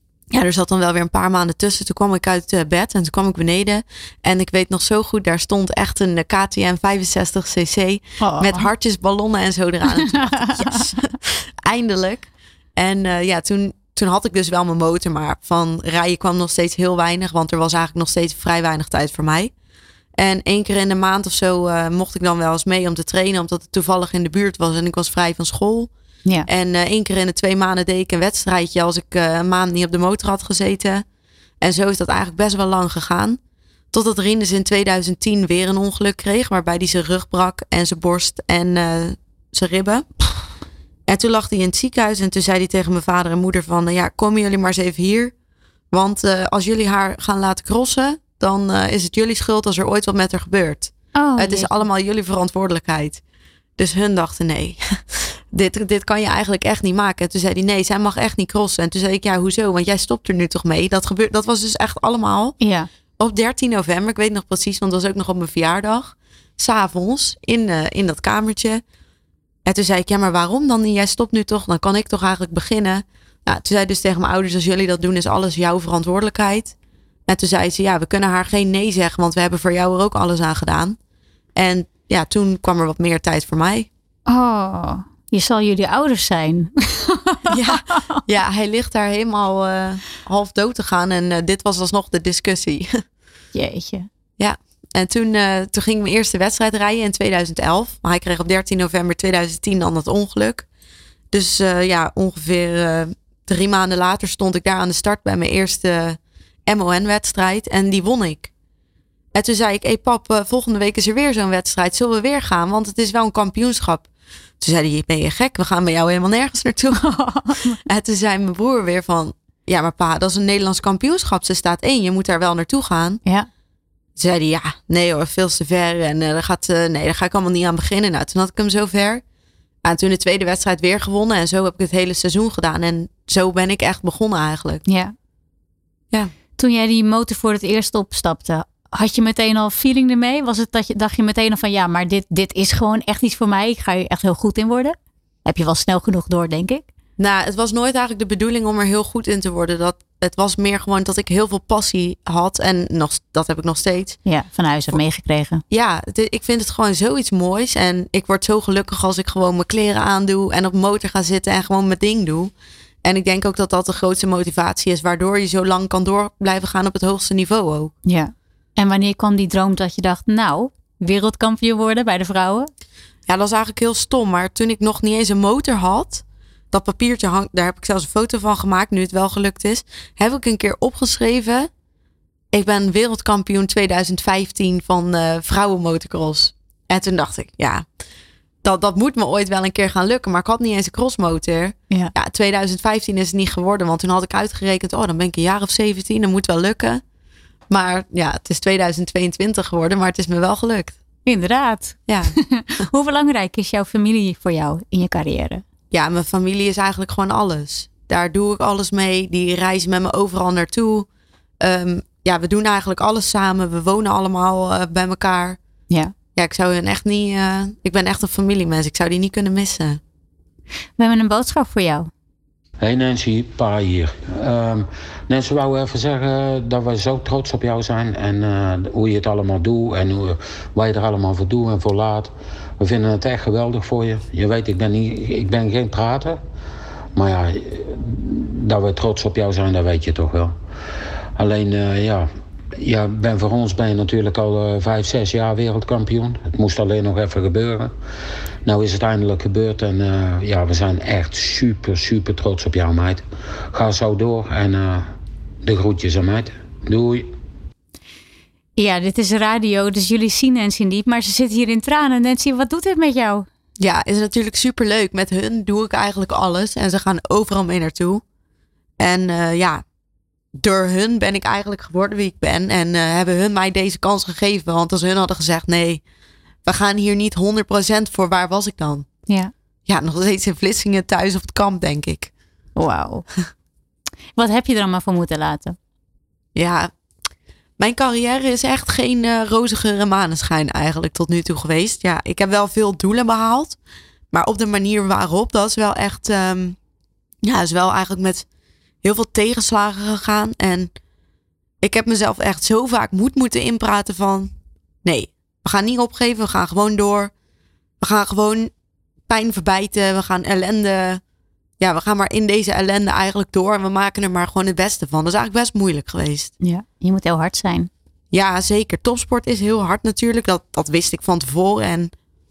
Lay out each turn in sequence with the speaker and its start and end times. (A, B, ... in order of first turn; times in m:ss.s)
0:00.3-0:19.5 A
0:08.2-0:08.7 B
0:10.0-0:10.9 B
0:20.2-0:25.9 A
0:26.4-0:31.0 A
0:31.6-0:33.4 A
0:33.9-0:40.2 A
0:41.1-0:45.3 A
0:45.9-0:53.2 A
0:51.1-0:51.8 B
0:53.8-1:02.6 A
1:02.6-1:02.9 B
1:03.2-1:08.8 A
1:09.6-1:16.7 A
1:17.3-1:21.0 A
1:21.6-1:23.9 A
1:24.3-1:28.2 B
1:27.5-1:33.0 A
1:33.5-1:34.1 B
1:34.4-1:40.6 A
1:41.3-1:48.5 A
1:49.3-1:54.1 A
1:54.6-1:57.0 A
1:56.9-1:57.8 B
1:57.8-2:03.2 A
2:04.2-2:09.2 A
2:09.8-2:14.8 A
2:14.8-2:15.1 B
2:16.6-2:26.9 B
2:27.2-2:34.2 A
2:34.2-2:35.6 B
2:35.7-2:42.5 A
2:43.0-2:47.9 A
2:48.0-2:52.7 B
2:53.3-3:01.7 A
3:02.5-3:07.8 A
3:08.6-3:17.0 A
3:17.7-3:21.0 A
3:21.2-3:25.6 B
3:22.1-3:22.4 A
3:25.9-3:31.1 A
3:31.6-3:35.6 A
3:36.3-3:40.0 A
3:41.0-3:42.1 B
3:42.8-3:56.4 C
3:57.1-4:00.5 C
4:01.4-4:07.9 C
4:08.6-4:15.1 C
4:15.6-4:17.3 C
4:18.8-4:23.4 B
4:23.8-4:28.2 A
4:29.0-4:29.8 A
4:30.5-4:36.0 A
4:36.6-4:39.1 A
4:39.9-4:42.3 A
4:42.8-4:43.2 B
4:44.4-4:45.8 B
4:46.5-4:46.9 A
4:47.8-4:53.8 A
4:54.3-4:56.8 A
4:57.4-4:58.4 A
4:59.0-5:00.9 A
5:01.8-5:04.5 A
5:05.0-5:07.3 A
5:08.0-5:08.7 A
5:09.3-5:11.2 A
5:11.8-5:16.5 A
5:16.6-5:17.9 B
5:18.3-5:22.1 A